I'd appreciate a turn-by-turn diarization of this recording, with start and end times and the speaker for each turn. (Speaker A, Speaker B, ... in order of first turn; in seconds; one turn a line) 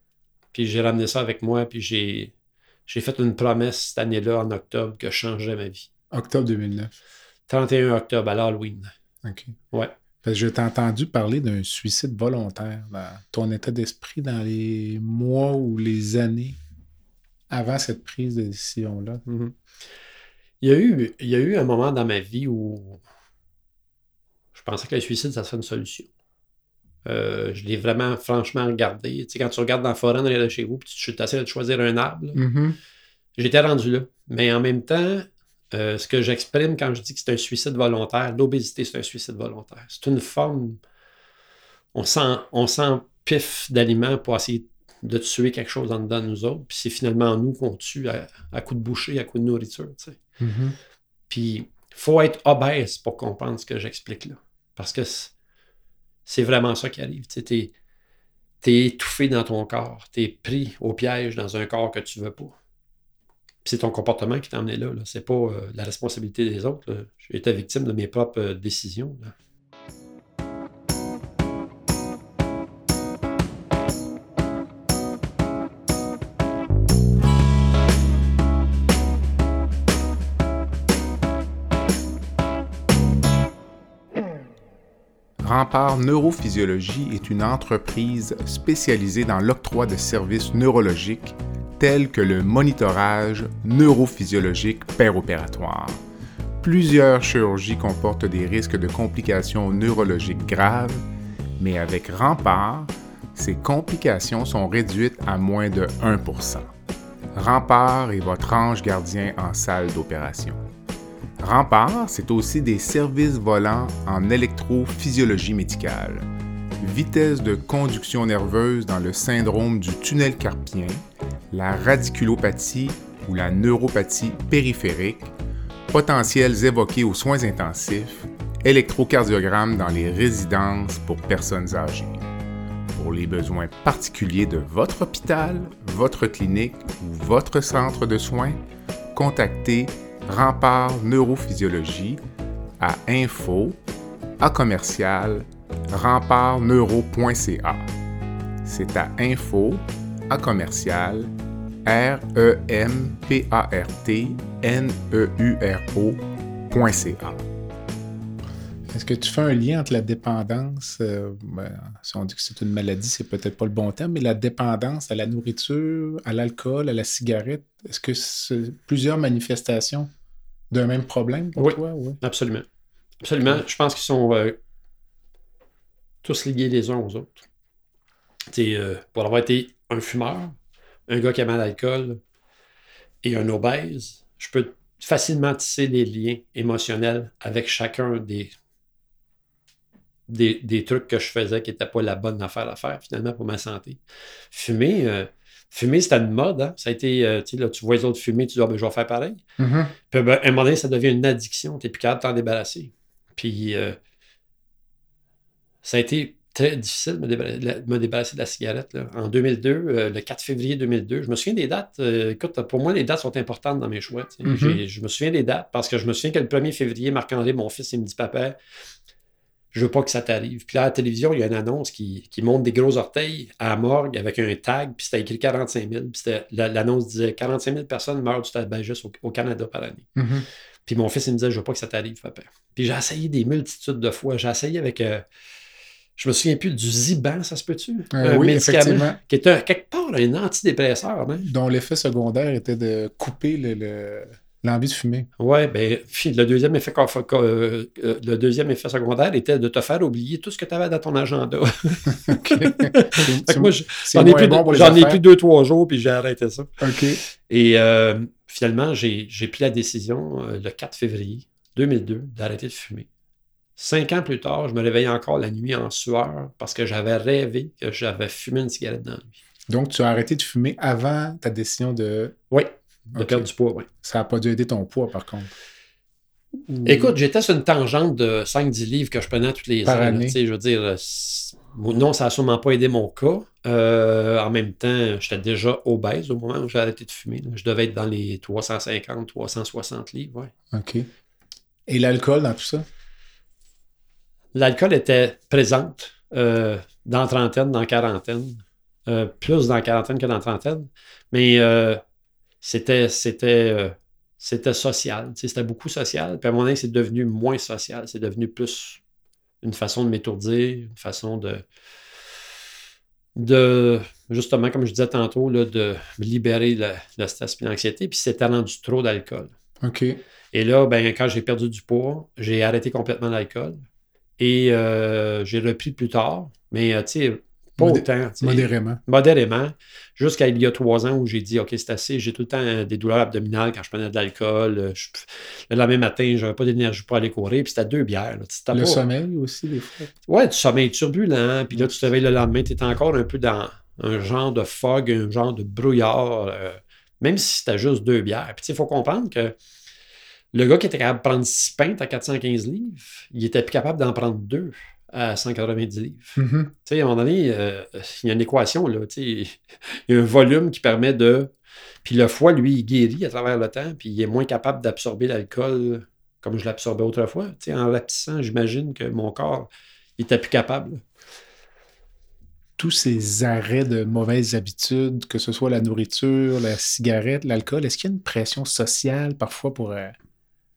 Speaker A: 0.5-2.3
Speaker A: 2.9-5.9
Speaker B: 6.1-7.0
Speaker A: 7.5-8.9
Speaker B: 9.2-9.6
Speaker B: 10.2-16.6
Speaker B: 17.5-19.2
Speaker A: 19.3-19.5
Speaker A: 20.6-23.0
Speaker A: 24.6-26.1
Speaker A: 27.1-32.4
Speaker B: 32.4-32.8
Speaker A: 33.4-40.8
Speaker A: 41.9-50.2
Speaker B: 50.4-50.8
Speaker A: 51.3-55.3
Speaker A: 56.3-57.7
Speaker A: 58.6-62.5
Speaker A: 63.6-69.3
Speaker B: 85.4-96.0
Speaker B: 96.6-101.0
Speaker B: 101.6-106.7
Speaker B: 107.3-110.6
Speaker B: 111.4-116.3
Speaker B: 116.8-121.0
Speaker B: 121.5-125.3
Speaker B: 125.9-132.2
Speaker B: 132.9-138.6
Speaker B: 139.1-142.2
Speaker B: 142.8-143.8
Speaker B: 144.4-147.9
Speaker B: 148.6-151.3
Speaker B: 151.8-157.4
Speaker B: 158.9-170.1
Speaker B: 170.7-172.2
Speaker A: 171.6-172.7
Speaker A: 173.2-174.6
Speaker A: 176.2-177.4
Speaker A: 178.5-180.6
Speaker A: 181.1-182.2
Speaker A: 183.2-188.5
Speaker A: 190.3-199.4
Speaker B: 199.6-200.0
Speaker A: 200.1-204.0
Speaker A: 205.8-218.6
Speaker B: 214.4-214.8
Speaker A: 219.7-230.1
Speaker B: 230.2-230.5
Speaker A: 230.9-235.2
Speaker A: 236.2-241.5
Speaker B: 238.1-239.2
Speaker B: 241.4-245.3
Speaker A: 245.4-263.1
Speaker B: 252.2-255.2
Speaker B: 256.8-257.2
Speaker A: 263.8-269.4
Speaker B: 269.7-272.4
Speaker A: 272.5-273.9
Speaker B: 273.1-273.5
Speaker B: 274.0-275.5
Speaker B: 276.7-277.1
Speaker A: 276.9-290.5
Speaker B: 279.9-280.4
Speaker B: 290.7-291.1
Speaker B: 291.9-292.9
Speaker A: 294.5-302.0
Speaker A: 302.6-309.0
Speaker A: 309.6-311.6
Speaker A: 313.4-319.5
Speaker B: 319.8-320.2
Speaker A: 320.5-323.8
Speaker A: 324.4-339.0
Speaker B: 327.8-329.0
Speaker B: 338.7-340.1
Speaker A: 340.3-349.6
Speaker A: 350.5-361.5
Speaker B: 356.4-356.7
Speaker A: 362.0-371.0
Speaker B: 372.8-380.1